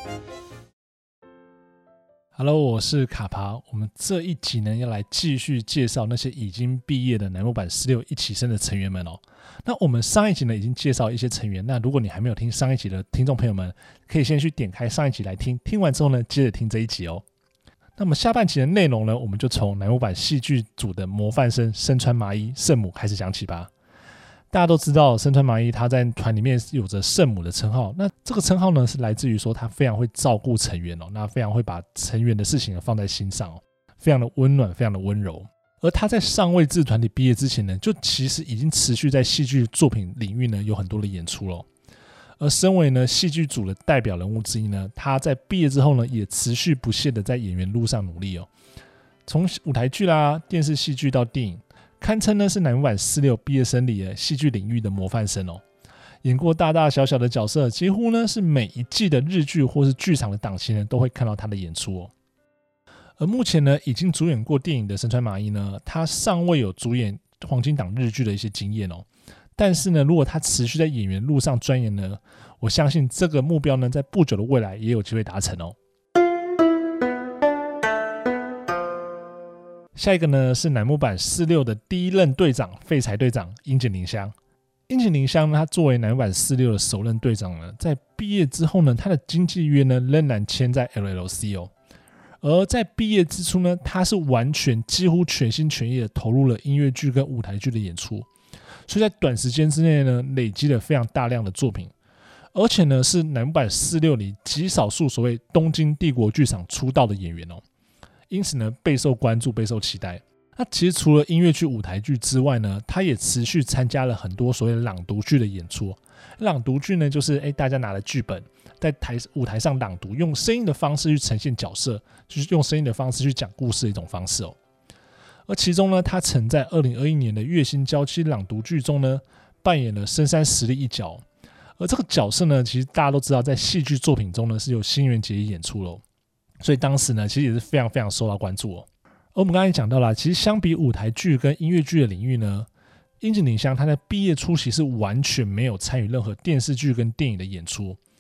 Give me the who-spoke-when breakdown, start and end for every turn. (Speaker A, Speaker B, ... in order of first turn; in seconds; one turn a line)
Speaker A: 2.4-17.2
Speaker A: 18.0-23.7
Speaker A: 24.5-41.7
Speaker A: 42.4-48.5
Speaker A: 49.3-55.6
Speaker A: 56.2-62.1
Speaker A: 63.2-75.8
Speaker A: 80.0-84.3
Speaker A: 84.9-91.7
Speaker A: 92.4-98.3
Speaker A: 98.9-101.9
Speaker A: 102.5-107.6
Speaker A: 108.3-124.6
Speaker A: 125.5-131.2
Speaker A: 131.8-136.0
Speaker A: 136.6-142.7
Speaker A: 143.2-148.0